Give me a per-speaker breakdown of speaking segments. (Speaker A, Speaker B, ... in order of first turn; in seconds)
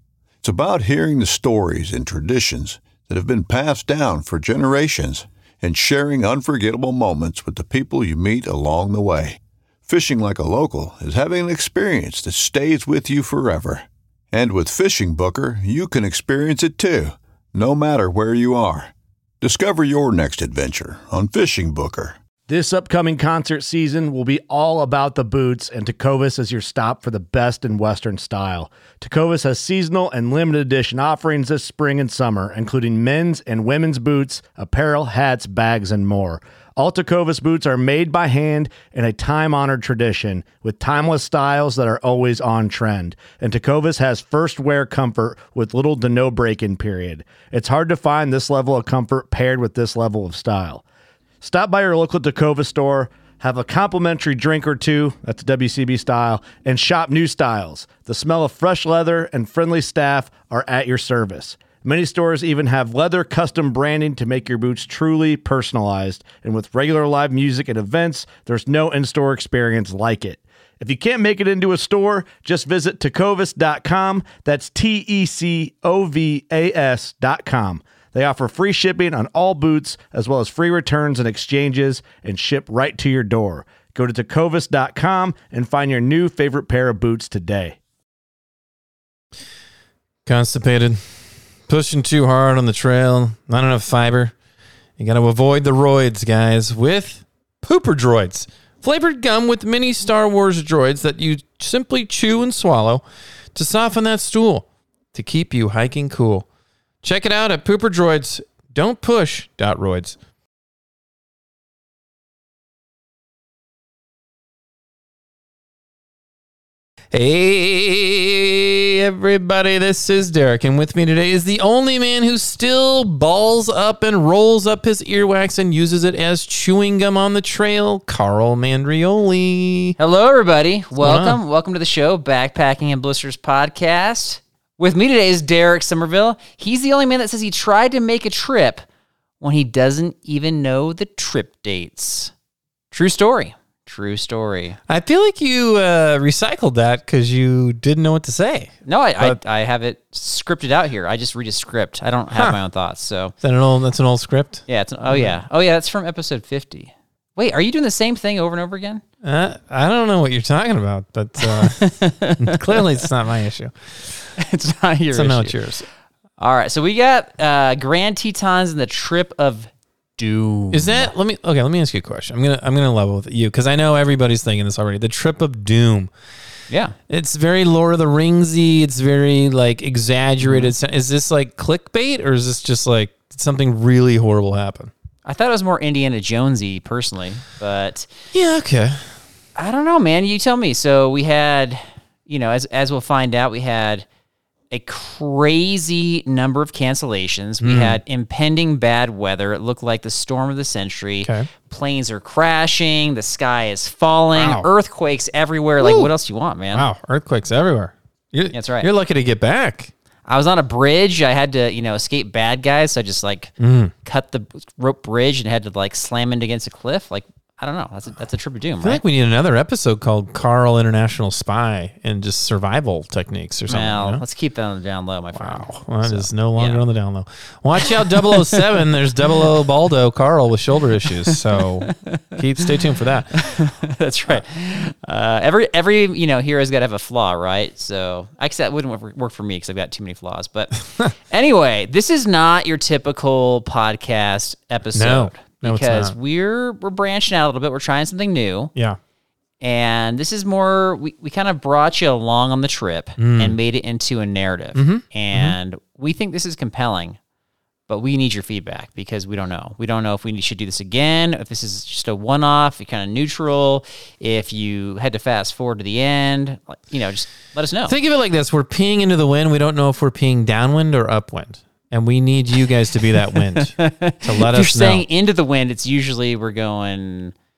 Speaker A: 0.4-22.2
Speaker B: 22.5-50.8, 51.4-87.8
Speaker C: 90.2-94.3, 95.0-103.0, 103.5-106.4, 107.0-110.2, 117.1-129.9, 131.0-131.4, 144.9-149.4, 153.4-155.4, 159.2-164.3, 165.1-165.9, 170.7-176.1, 177.1-184.9, 188.3-189.1, 197.6-198.0, 201.2-201.5, 204.3-204.7, 205.8-206.1, 206.7-209.9, 213.6-213.9, 218.8-224.2, 225.3-233.6, 244.9-246.1, 253.2-253.6, 254.7-255.6, 267.9-275.0
Speaker D: 130.0-138.8, 139.4-142.3, 142.9-144.8, 148.8-153.3, 154.7-159.0, 161.4-162.9, 164.4-165.6, 166.4-171.1, 176.7-176.9, 180.4-180.7, 185.2-188.1, 189.6-194.1, 194.7-206.8, 208.5-208.9, 210.3-213.5, 214.0-219.0, 223.7-226.8, 231.9-232.2, 233.4-248.7, 249.6-257.2, 257.9-267.9, 273.5-277.3